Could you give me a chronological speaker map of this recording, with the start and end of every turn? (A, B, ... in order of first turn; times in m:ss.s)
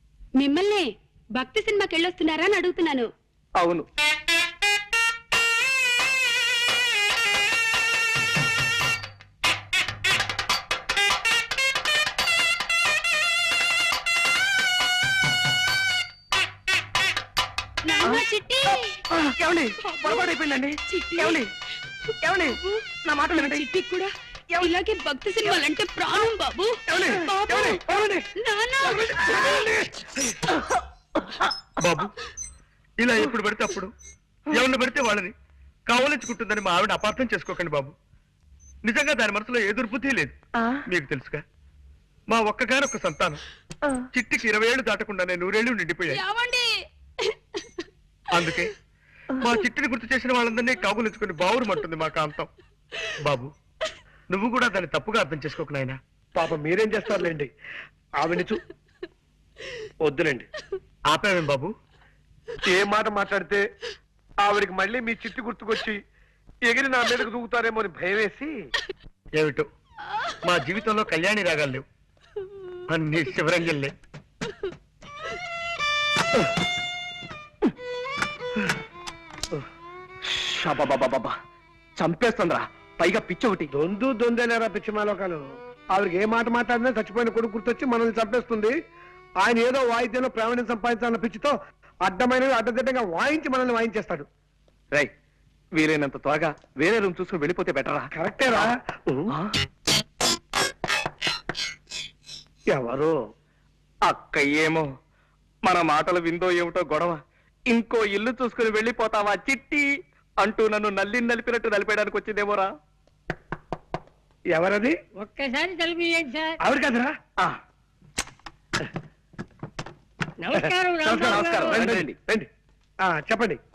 0:00.4-0:03.1 A
0:03.6-0:03.8 B
0:17.9-0:19.0 A
0:19.1-0:21.5 B
0:19.8-0:20.3 A
0:20.9-0:21.4 A
0:22.2-0:23.6 B
0:22.5-0:29.8 A
0:26.9-0:28.2 B
0:31.8-0:32.1 C
0:33.0-0:33.9 C
0:34.5-0:35.3 C
0:35.9-0:38.0 C
0:38.8-0:40.4 C
0:40.9-0:41.4 C
0:42.3-0:43.4 C
0:44.1-0:46.2 C
0:46.1-0:46.7 A
0:48.3-0:48.7 C
0:49.4-0:52.5 C
0:53.2-0:53.5 C
0:54.3-0:56.0 C
0:56.4-0:57.5 D
0:58.2-0:58.6 D
1:00.0-1:00.5 D
1:01.1-1:01.8 C
1:02.7-1:03.6 D
1:04.4-1:06.0 D
1:06.6-1:08.5 D
1:09.4-1:09.7 C
1:10.4-1:11.8 C
1:12.9-1:13.9 C
1:20.3-1:21.3 B
1:22.0-1:23.7 B
1:23.8-1:25.4 D
1:25.9-1:28.7 D
1:29.4-1:31.6 D
1:32.1-1:34.3 D
1:35.8-1:38.7 B
1:38.1-1:39.3 D
1:42.7-1:43.2 D
1:44.1-1:44.9 B
1:45.7-1:49.8 B
1:50.4-1:52.7 B
1:54.5-1:55.0 D
1:55.2-1:56.6 E
1:56.6-1:57.1 D
2:00.4-2:01.8 E
2:01.1-2:02.2 B
2:01.1-2:02.5 D
2:03.1-2:03.6 D